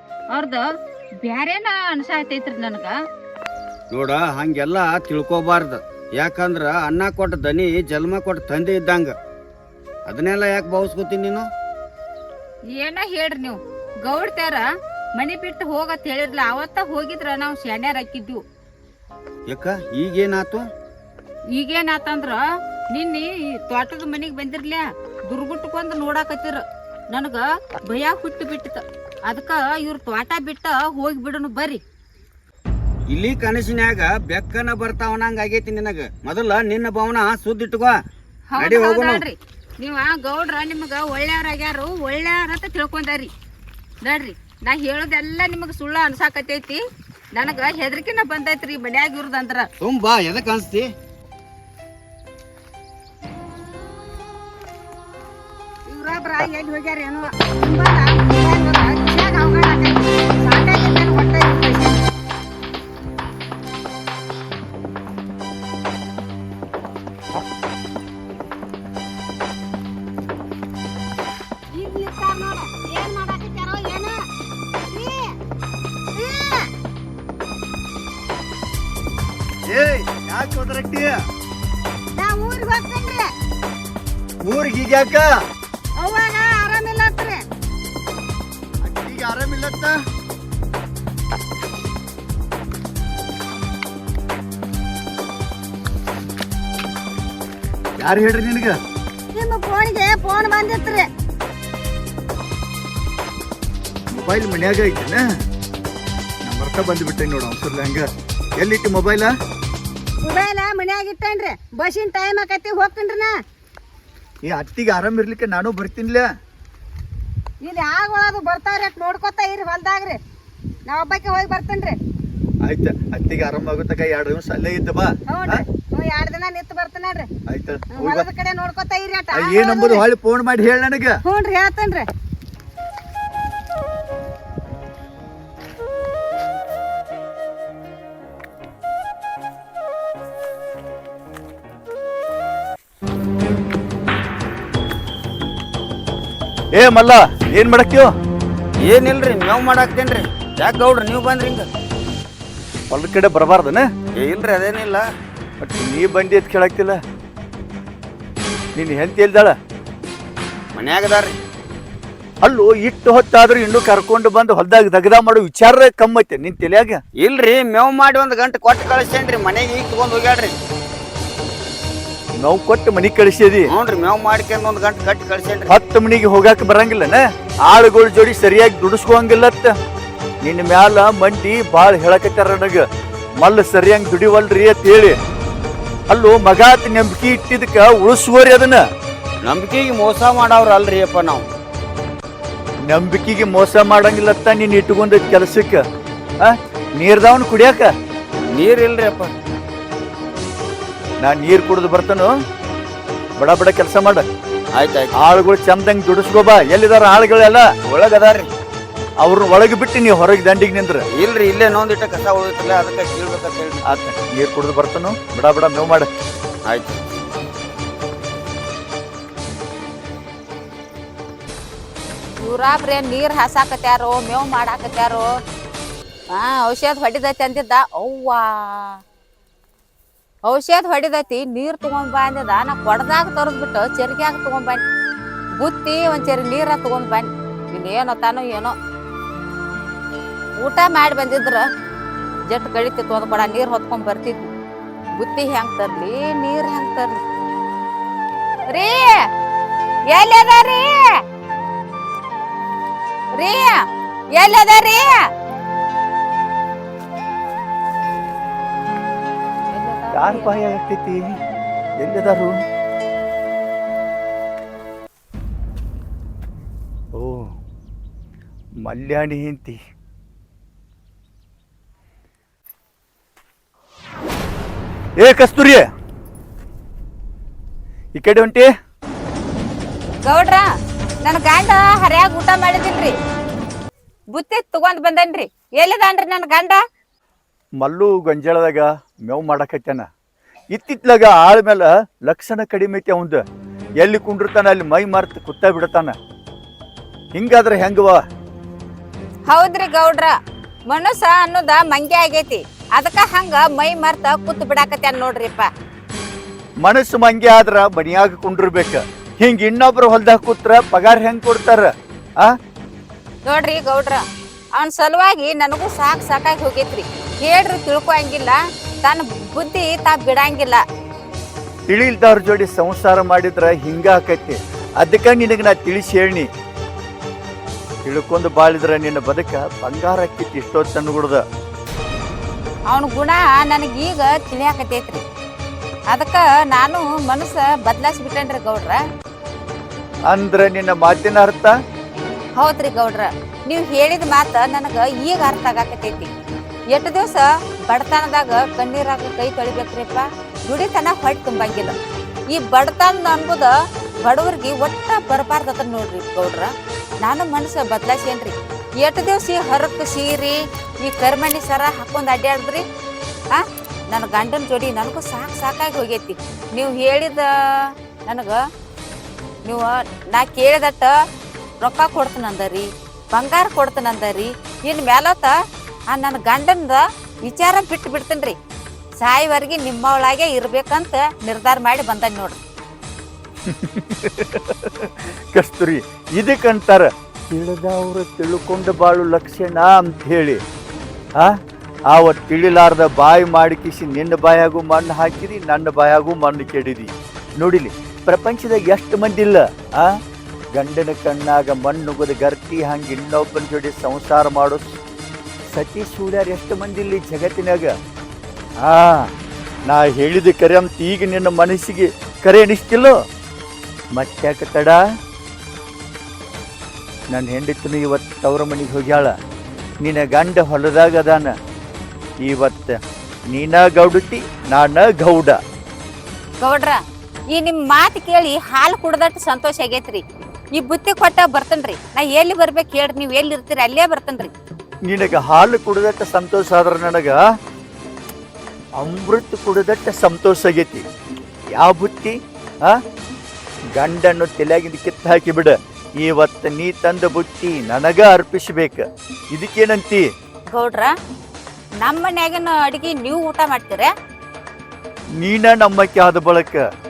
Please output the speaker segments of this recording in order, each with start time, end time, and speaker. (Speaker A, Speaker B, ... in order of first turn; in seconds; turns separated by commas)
Speaker A: 0.3-0.7, Speaker A: 1.2-3.0, Speaker B: 3.9-9.1, Speaker B: 10.1-11.5, Speaker A: 12.7-18.4, Speaker B: 19.5-20.6, Speaker A: 21.5-31.8, Speaker B: 33.1-38.0, Speaker A: 38.5-43.3, Speaker B: 38.6-39.2, Speaker A: 44.0-46.8, Speaker A: 47.4-49.7, Speaker B: 49.8-50.9, Speaker C: 55.9-62.0, Speaker C: 71.8-74.1, Speaker C: 74.9-75.3, Speaker C: 76.2-76.7, Speaker D: 79.7-81.1, Speaker C: 82.2-83.3, Speaker D: 84.5-85.3, Speaker C: 86.0-87.4, Speaker D: 88.8-90.0, Speaker D: 98.0-98.8, Speaker C: 99.3-101.1, Speaker D: 104.1-105.2, Speaker D: 106.5-109.3, Speaker C: 110.2-113.3, Speaker D: 114.5-116.3, Speaker C: 117.6-120.2, Speaker C: 120.9-122.0, Speaker D: 122.6-125.6, Speaker C: 125.3-127.3, Speaker D: 127.5-128.3, Speaker C: 127.9-130.0, Speaker D: 129.3-131.2, Speaker C: 131.2-132.1, Speaker D: 146.7-148.1, Speaker B: 148.8-151.7, Speaker D: 152.9-153.9, Speaker B: 154.2-155.0, Speaker D: 155.6-157.0, Speaker D: 158.8-159.6, Speaker B: 160.8-161.4, Speaker D: 162.4-167.0, Speaker B: 167.2-170.5, Speaker D: 172.4-173.7, Speaker B: 173.7-175.8, Speaker D: 175.7-179.7, Speaker D: 180.4-182.8, Speaker D: 183.4-185.2, Speaker D: 186.1-188.8, Speaker B: 189.4-191.5, Speaker D: 192.8-195.8, Speaker D: 196.4-197.9, Speaker B: 198.5-199.3, Speaker D: 201.2-202.3, Speaker D: 203.4-204.3, Speaker B: 204.7-205.2, Speaker D: 205.2-207.7, Speaker B: 207.9-208.5, Speaker D: 209.2-211.1, Speaker B: 211.1-213.8, Speaker D: 213.8-216.1, Speaker B: 216.7-217.0, Speaker A: 222.4-225.3, Speaker A: 226.3-229.0, Speaker A: 230.5-234.8, Speaker A: 235.6-238.8, Speaker A: 240.6-241.6, Speaker A: 242.5-244.5, Speaker A: 245.2-247.2, Speaker A: 248.7-249.2, Speaker A: 250.1-251.1, Speaker A: 253.3-253.8, Speaker A: 254.3-255.2, Speaker A: 259.7-260.8, Speaker D: 260.1-261.4, Speaker D: 262.0-262.5, Speaker D: 267.1-267.6, Speaker D: 268.8-269.8, Speaker D: 275.2-275.9, Speaker D: 278.2-278.7, Speaker A: 280.2-280.7, Speaker A: 281.2-283.1, Speaker A: 284.3-286.8, Speaker D: 287.8-290.1, Speaker D: 290.7-293.4, Speaker D: 294.0-296.2, Speaker D: 297.3-298.2, Speaker A: 299.5-300.3, Speaker A: 300.9-305.7, Speaker D: 306.8-311.9, Speaker A: 313.5-314.2, Speaker A: 314.8-320.8, Speaker D: 321.9-326.5, Speaker D: 328.1-331.4, Speaker A: 332.9-335.2, Speaker A: 336.1-339.0, Speaker D: 340.3-341.7, Speaker A: 342.6-346.3, Speaker A: 346.9-352.0, Speaker A: 352.5-356.7, Speaker A: 357.2-362.8, Speaker A: 363.5-367.5, Speaker A: 368.3-368.6, Speaker A: 369.7-371.1, Speaker A: 371.8-375.5, Speaker A: 376.1-378.6, Speaker A: 379.2-382.6, Speaker D: 383.7-390.6, Speaker D: 392.1-400.2, Speaker D: 400.8-404.8, Speaker D: 405.7-407.9, Speaker D: 408.8-409.3, Speaker D: 409.9-413.2, Speaker D: 414.1-415.0, Speaker D: 417.3-419.3, Speaker D: 420.0-421.5, Speaker D: 422.4-423.0, Speaker D: 423.5-425.6, Speaker A: 426.6-427.0, Speaker A: 427.5-430.2, Speaker A: 430.8-434.5, Speaker D: 435.1-437.4, Speaker D: 439.0-441.1, Speaker D: 441.8-443.0, Speaker D: 444.0-450.2, Speaker A: 450.7-451.1, Speaker A: 452.0-454.1, Speaker D: 455.4-456.8